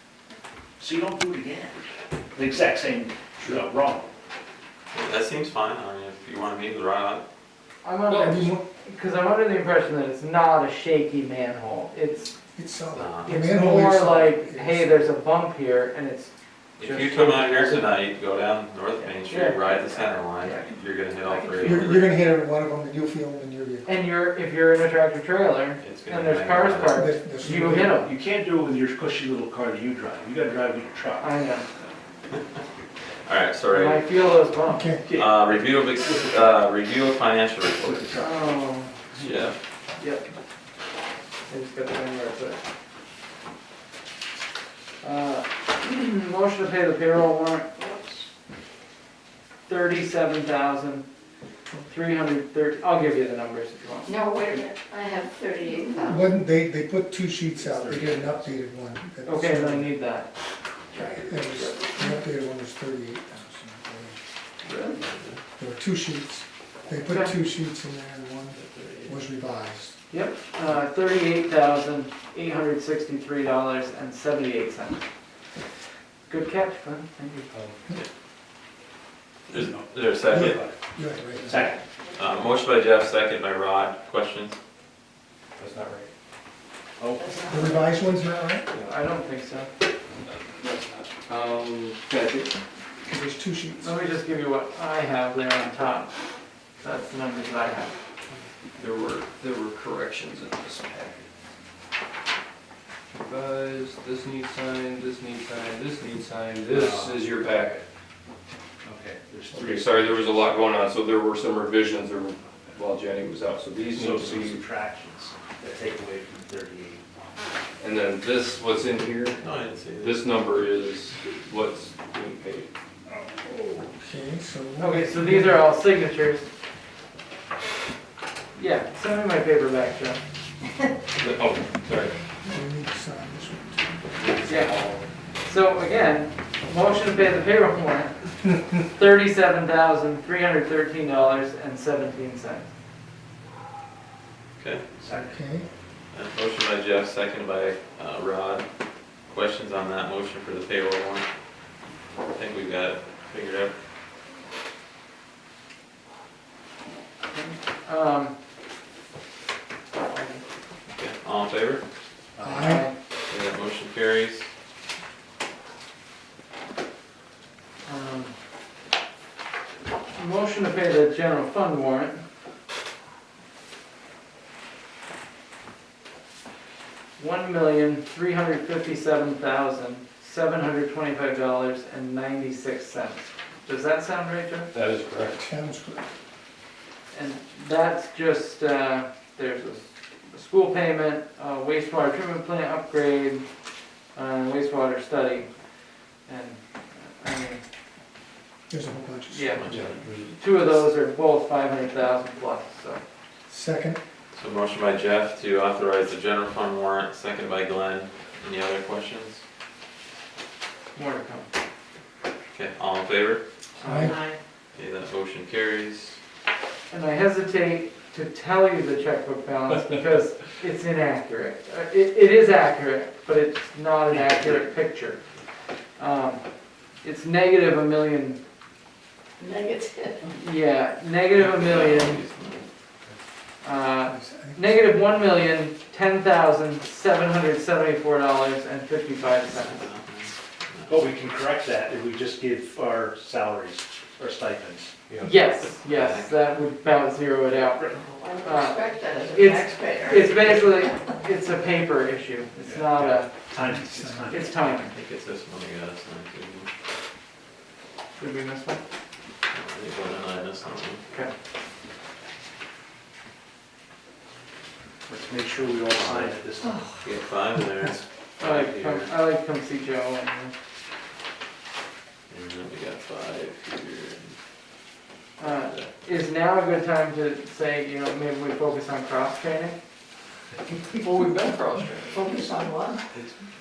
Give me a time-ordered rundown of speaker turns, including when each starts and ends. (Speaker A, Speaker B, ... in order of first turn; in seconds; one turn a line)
Speaker A: 0.8-1.8
Speaker A: 2.3-4.1
Speaker B: 4.9-7.2
Speaker C: 7.8-12.3
Speaker D: 8.1-8.6
Speaker D: 12.5-14.9
Speaker B: 12.9-13.4
Speaker C: 13.2-18.0
Speaker B: 16.8-22.1
Speaker C: 19.2-20.7
Speaker C: 21.2-21.8
Speaker D: 21.6-23.9
Speaker C: 23.9-28.1
Speaker B: 25.8-27.0
Speaker D: 26.9-27.9
Speaker A: 27.9-31.3
Speaker C: 31.2-31.7
Speaker B: 33.3-34.4
Speaker C: 33.7-34.9
Speaker D: 34.7-35.0
Speaker A: 35.0-36.3
Speaker B: 35.1-38.2
Speaker A: 37.8-38.4
Speaker C: 38.2-39.0
Speaker A: 39.1-39.4
Speaker B: 39.2-39.5
Speaker C: 40.0-40.3
Speaker C: 41.5-42.6
Speaker C: 45.0-47.7
Speaker E: 47.8-48.0
Speaker C: 49.7-51.0
Speaker C: 51.9-54.2
Speaker E: 54.0-56.3
Speaker D: 56.0-59.9
Speaker A: 57.5-58.6
Speaker C: 59.2-60.3
Speaker C: 60.9-62.0
Speaker D: 61.0-64.2
Speaker C: 64.6-65.0
Speaker B: 65.0-65.4
Speaker D: 65.6-70.0
Speaker C: 67.1-67.3
Speaker B: 68.5-69.2
Speaker C: 70.1-75.0
Speaker C: 76.3-77.5
Speaker B: 79.5-80.6
Speaker A: 79.5-80.8
Speaker D: 80.3-81.8
Speaker A: 81.4-81.8
Speaker B: 82.1-84.6
Speaker F: 85.6-86.1
Speaker A: 87.0-87.7
Speaker E: 87.2-87.8
Speaker D: 87.5-88.7
Speaker C: 88.8-89.7
Speaker F: 90.2-92.5
Speaker D: 93.1-94.0
Speaker C: 93.8-96.1
Speaker C: 96.8-97.9
Speaker F: 98.8-101.3
Speaker F: 103.1-107.8
Speaker A: 106.7-107.2
Speaker A: 108.8-110.3
Speaker F: 109.5-114.6
Speaker A: 113.9-117.0
Speaker F: 117.8-119.4
Speaker B: 119.4-120.2
Speaker F: 120.0-122.7
Speaker D: 123.1-125.7
Speaker C: 124.8-126.5
Speaker C: 128.5-130.2
Speaker F: 131.2-132.1
Speaker D: 132.4-134.1
Speaker F: 134.1-135.0
Speaker C: 134.5-134.8
Speaker C: 135.4-142.7
Speaker B: 144.6-144.9
Speaker A: 145.0-145.4
Speaker D: 145.2-145.7
Speaker B: 146.1-148.7
Speaker B: 149.2-151.2
Speaker B: 152.3-153.7
Speaker C: 157.3-158.3
Speaker C: 160.1-160.4
Speaker B: 160.9-161.8
Speaker A: 162.4-162.7
Speaker D: 162.4-162.9
Speaker C: 162.5-162.9
Speaker B: 163.3-164.5
Speaker C: 167.9-168.3
Speaker C: 170.1-172.2
Speaker C: 177.2-184.7
Speaker F: 184.7-185.5
Speaker D: 185.3-186.1
Speaker C: 187.1-193.4
Speaker C: 194.1-195.5
Speaker C: 196.2-197.6
Speaker D: 198.7-199.6
Speaker C: 199.3-199.8
Speaker B: 199.5-200.1
Speaker F: 199.7-200.3
Speaker C: 200.4-203.0
Speaker D: 203.5-204.0
Speaker B: 204.3-209.4
Speaker C: 210.9-211.5
Speaker B: 212.5-213.4
Speaker C: 213.8-214.2
Speaker D: 213.8-214.2
Speaker A: 214.1-214.3
Speaker B: 214.8-216.2
Speaker C: 216.9-225.2
Speaker A: 224.1-224.6
Speaker C: 226.0-226.4
Speaker C: 227.0-228.4
Speaker E: 229.4-230.3
Speaker C: 230.3-232.2
Speaker B: 231.3-232.6
Speaker C: 233.6-239.9
Speaker D: 234.1-235.1
Speaker B: 239.5-241.1
Speaker A: 240.9-245.2
Speaker C: 245.2-253.3
Speaker B: 245.8-246.4
Speaker A: 247.5-248.2
Speaker E: 248.2-250.1
Speaker A: 252.6-254.6
Speaker D: 253.6-254.3
Speaker C: 254.3-254.9
Speaker B: 254.6-256.7
Speaker C: 258.2-258.8
Speaker B: 259.5-261.0
Speaker A: 265.1-266.9
Speaker B: 266.0-266.3
Speaker B: 267.0-269.1
Speaker C: 268.4-270.5
Speaker B: 272.3-274.3
Speaker C: 275.4-279.8
Speaker B: 275.4-275.9
Speaker F: 281.0-282.4
Speaker E: 282.1-282.9
Speaker A: 282.2-282.9